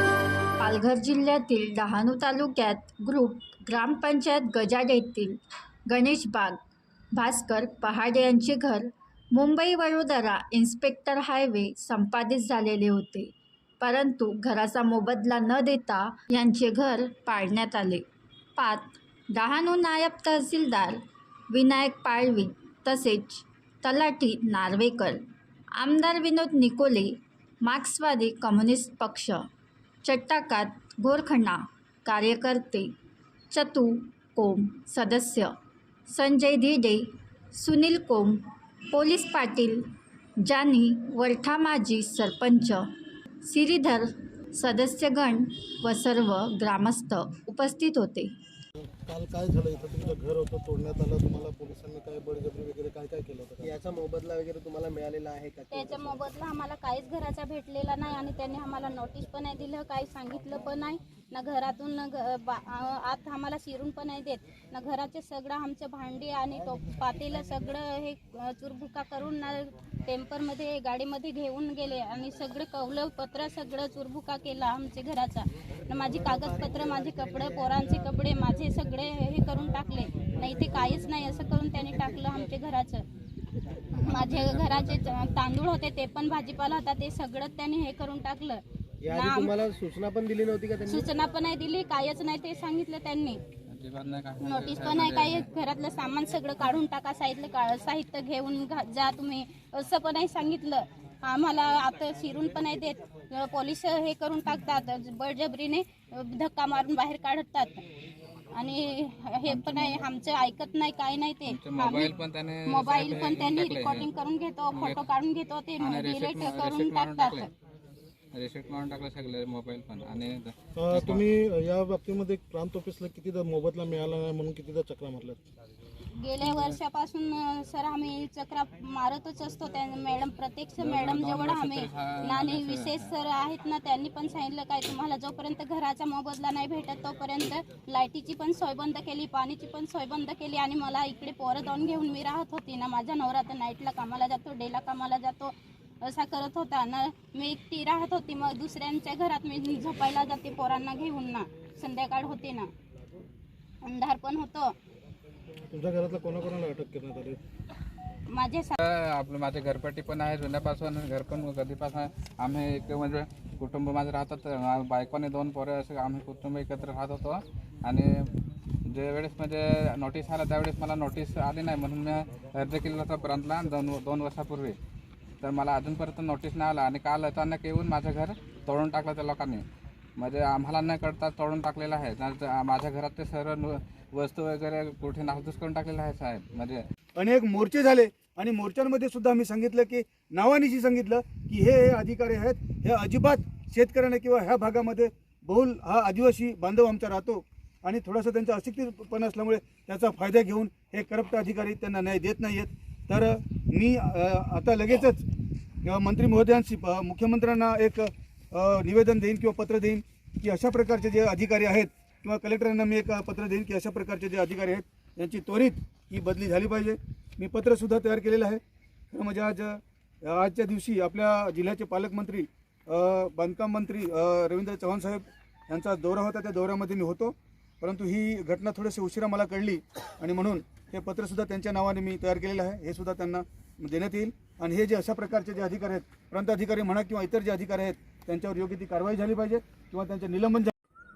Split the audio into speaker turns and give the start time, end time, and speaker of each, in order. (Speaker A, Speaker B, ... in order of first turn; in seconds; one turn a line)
Speaker A: 0.6-6.6
Speaker A: 7.1-25.2
Speaker A: 25.8-29.4
Speaker A: 30.0-32.9
Speaker A: 33.5-35.5
Speaker A: 36.1-39.9
Speaker A: 40.4-42.9
Speaker A: 43.4-48.3
Speaker B: 49.0-53.8
Speaker C: 53.6-56.4
Speaker D: 55.7-83.0
Speaker C: 76.2-77.4
Speaker E: 84.0-84.8
Speaker D: 84.0-89.6
Speaker C: 89.0-91.1
Speaker D: 90.8-93.4
Speaker E: 93.7-95.5
Speaker D: 94.4-107.8
Speaker D: 108.5-112.1
Speaker E: 109.4-110.0
Speaker E: 111.5-114.1
Speaker D: 112.7-117.5
Speaker E: 114.7-115.0
Speaker E: 115.8-117.5
Speaker E: 118.3-121.3
Speaker B: 120.7-125.4
Speaker D: 126.1-152.7
Speaker E: 126.4-126.8
Speaker E: 130.8-133.1
Speaker D: 153.8-154.8
Speaker B: 155.7-157.4
Speaker D: 158.3-158.8
Speaker E: 158.8-168.3
Speaker E: 168.8-174.8
Speaker E: 175.4-179.6
Speaker E: 180.2-186.8
Speaker F: 187.2-205.2
Speaker F: 205.8-218.6
Speaker F: 219.1-240.7